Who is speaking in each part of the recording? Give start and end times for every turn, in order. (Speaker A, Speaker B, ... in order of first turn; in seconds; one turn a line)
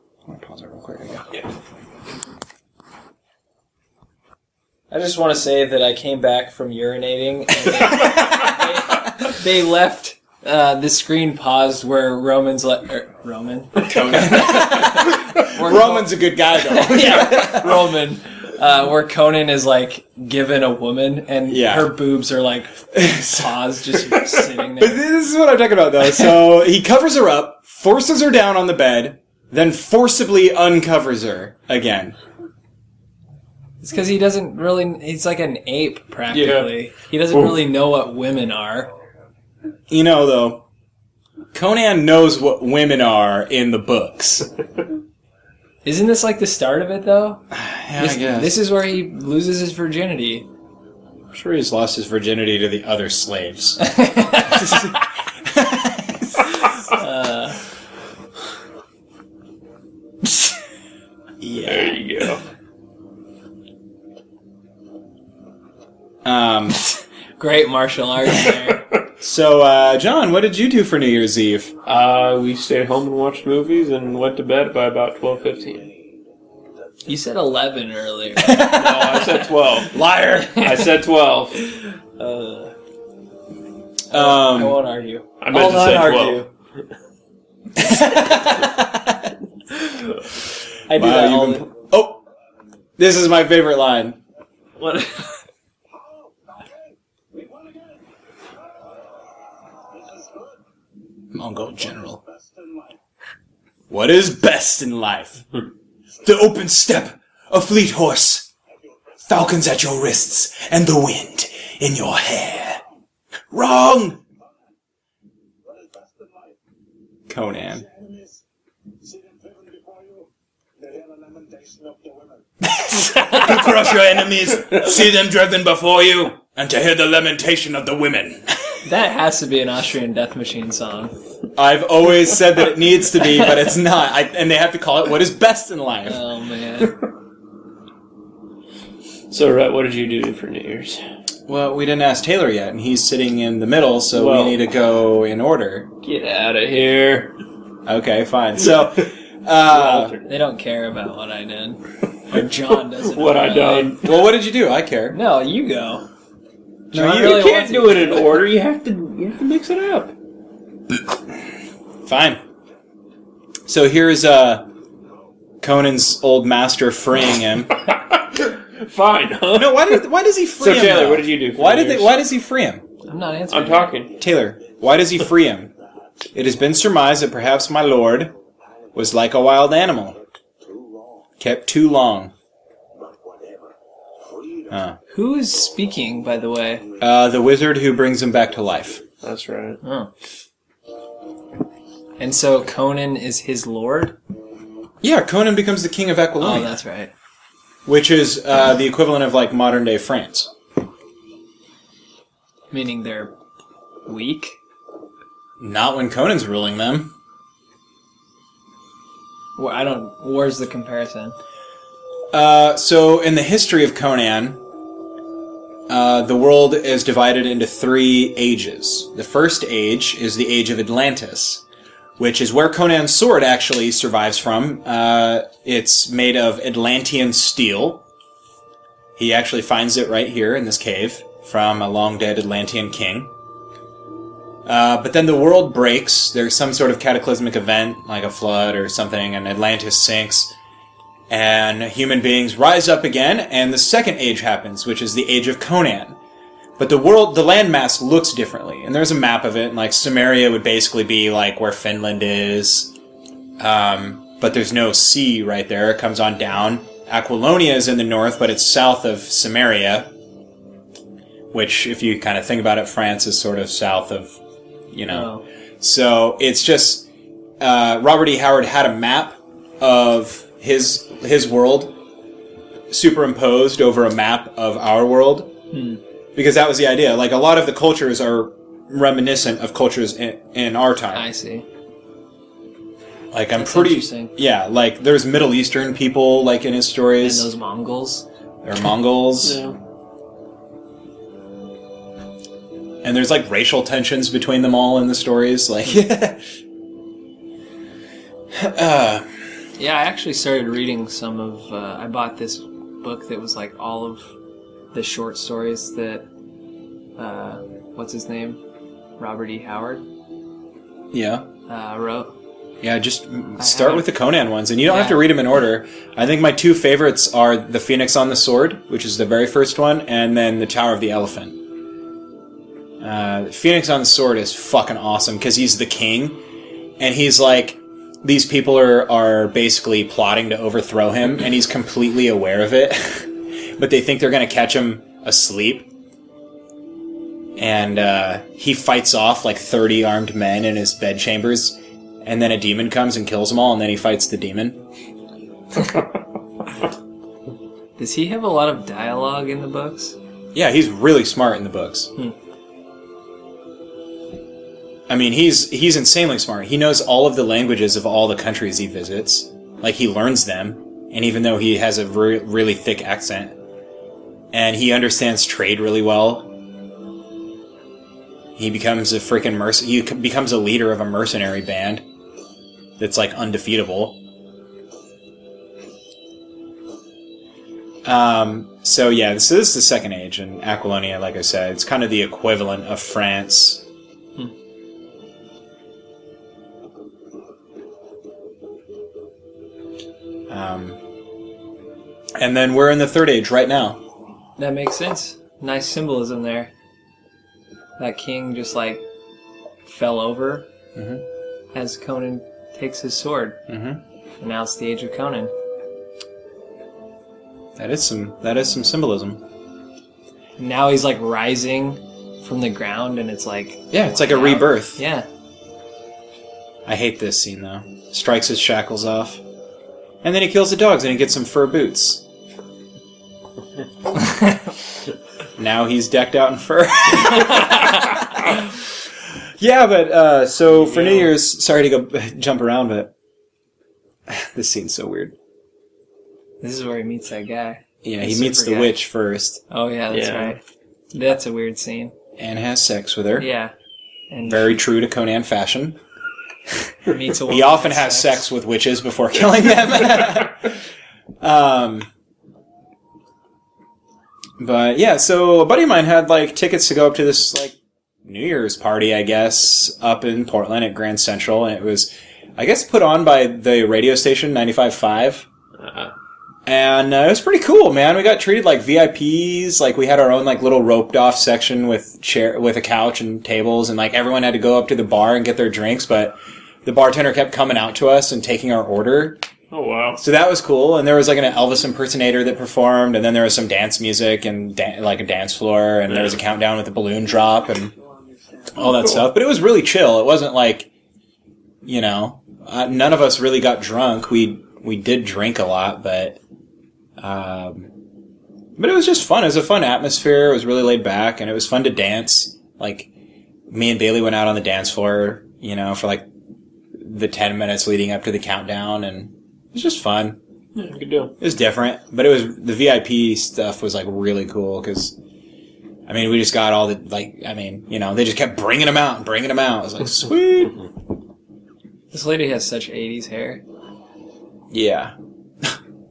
Speaker A: 0.3-1.3
Speaker B: 4.9-25.0
Speaker A: 13.8-17.9
Speaker A: 21.5-21.9
Speaker A: 22.9-23.6
Speaker A: 24.8-32.1
Speaker B: 33.8-38.9
Speaker C: 36.3-36.7
Speaker A: 39.9-40.6
Speaker A: 41.5-44.5
Speaker B: 45.8-47.4
Speaker A: 47.5-48.6
Speaker B: 48.0-50.5
Speaker A: 51.3-56.6
Speaker B: 53.8-54.8
Speaker B: 56.7-57.6
Speaker A: 61.4-62.0
Speaker C: 61.6-62.4
Speaker A: 66.2-66.8
Speaker B: 67.4-68.9
Speaker A: 69.2-71.7
Speaker C: 71.8-75.9
Speaker D: 75.7-76.2
Speaker B: 77.0-79.2
Speaker A: 78.4-79.0
Speaker C: 78.5-80.0
Speaker A: 79.9-80.6
Speaker B: 80.4-80.9
Speaker C: 80.6-81.6
Speaker B: 81.6-82.7
Speaker B: 84.1-86.5
Speaker A: 84.1-84.8
Speaker C: 85.4-86.4
Speaker A: 87.8-89.3
Speaker B: 90.9-91.7
Speaker A: 90.9-92.2
Speaker A: 93.0-94.2
Speaker B: 94.8-95.3
Speaker D: 95.9-98.0
Speaker D: 98.8-100.6
Speaker A: 101.3-102.2
Speaker D: 102.0-103.0
Speaker A: 103.9-105.4
Speaker A: 106.2-108.5
Speaker A: 109.3-112.8
Speaker A: 113.5-114.2
Speaker D: 115.6-116.6
Speaker A: 117.3-117.8
Speaker D: 117.7-118.4
Speaker D: 119.0-122.7
Speaker A: 122.6-128.8
Speaker B: 128.8-131.1
Speaker A: 131.6-136.2
Speaker B: 136.1-137.0
Speaker C: 139.3-141.0
Speaker A: 141.5-145.9
Speaker C: 144.1-144.6
Speaker C: 146.0-147.3
Speaker A: 147.8-150.2
Speaker C: 149.7-150.3
Speaker B: 150.2-154.0
Speaker C: 153.0-154.2
Speaker A: 154.0-155.2
Speaker B: 155.1-156.1
Speaker A: 156.9-157.5
Speaker B: 156.9-158.4
Speaker C: 157.0-160.1
Speaker A: 162.0-162.4
Speaker A: 163.7-164.7
Speaker A: 165.6-167.8
Speaker C: 167.9-170.0
Speaker A: 169.5-172.8
Speaker C: 170.6-172.1
Speaker B: 173.1-174.0
Speaker C: 173.5-174.2
Speaker A: 174.2-175.7
Speaker A: 176.3-178.3
Speaker A: 178.9-180.2
Speaker D: 180.6-181.3
Speaker A: 181.4-182.3
Speaker D: 182.9-184.7
Speaker A: 184.7-185.0
Speaker B: 185.1-186.8
Speaker A: 187.0-189.0
Speaker C: 189.2-189.8
Speaker B: 189.8-190.1
Speaker B: 192.2-194.2
Speaker A: 195.0-196.8
Speaker B: 196.4-197.1
Speaker A: 197.8-200.5
Speaker B: 202.7-203.3
Speaker B: 204.1-204.6
Speaker A: 205.6-207.1
Speaker B: 209.6-211.3
Speaker A: 212.3-214.6
Speaker A: 215.9-221.6
Speaker A: 222.2-228.0
Speaker A: 229.2-233.3
Speaker A: 234.6-240.6
Speaker A: 241.3-246.2
Speaker A: 246.8-252.9
Speaker A: 253.6-260.1
Speaker A: 261.5-264.4
Speaker A: 264.9-267.1
Speaker B: 265.1-265.4
Speaker A: 267.6-271.9
Speaker A: 272.9-275.5
Speaker B: 275.7-276.0
Speaker A: 276.3-281.2
Speaker B: 281.1-281.6
Speaker A: 283.3-287.5
Speaker B: 283.5-284.3
Speaker B: 287.2-288.2
Speaker A: 288.6-289.6
Speaker C: 289.4-289.8
Speaker A: 293.0-296.4
Speaker A: 298.5-299.3
Speaker B: 299.8-304.3
Speaker B: 304.9-306.2
Speaker B: 307.2-308.6
Speaker B: 309.2-310.0
Speaker A: 311.1-311.5
Speaker B: 311.7-312.3
Speaker A: 312.8-321.6
Speaker B: 313.6-314.1
Speaker B: 314.9-315.2
Speaker A: 323.0-326.4
Speaker A: 327.0-335.9
Speaker A: 337.6-344.8
Speaker B: 348.0-350.2
Speaker A: 350.5-352.1
Speaker A: 355.1-363.6
Speaker A: 364.5-366.5
Speaker A: 368.6-372.0
Speaker A: 373.0-374.2
Speaker A: 378.0-383.8
Speaker A: 390.5-391.0
Speaker A: 392.4-394.0
Speaker B: 394.6-396.7
Speaker B: 398.0-399.0
Speaker B: 399.8-400.7
Speaker A: 400.9-401.2
Speaker B: 401.7-403.6
Speaker A: 403.7-404.0
Speaker B: 404.4-405.5
Speaker A: 407.8-409.4
Speaker B: 410.6-415.3
Speaker A: 413.9-415.0
Speaker A: 416.9-419.4
Speaker A: 420.2-422.2
Speaker A: 425.6-428.8
Speaker A: 429.6-433.1
Speaker B: 430.7-431.3
Speaker A: 434.3-435.4
Speaker B: 436.6-439.0
Speaker A: 438.0-439.6
Speaker B: 439.7-440.6
Speaker C: 440.1-440.6
Speaker B: 441.1-442.1
Speaker A: 442.4-443.5
Speaker B: 443.4-443.7
Speaker B: 444.3-444.8
Speaker A: 444.4-446.0
Speaker A: 446.7-450.8
Speaker B: 447.1-448.4
Speaker A: 451.4-452.1
Speaker A: 454.6-465.4
Speaker C: 465.8-466.1
Speaker A: 466.6-479.4
Speaker C: 479.7-480.2
Speaker A: 480.2-487.9
Speaker C: 486.1-486.4
Speaker D: 488.0-488.7
Speaker A: 488.7-490.9
Speaker A: 491.8-496.4
Speaker A: 497.2-497.9
Speaker A: 498.8-503.1
Speaker A: 503.7-506.3
Speaker A: 507.0-510.4
Speaker C: 510.7-511.4
Speaker A: 511.4-515.1
Speaker A: 516.1-520.8
Speaker B: 522.1-523.6
Speaker A: 524.7-525.7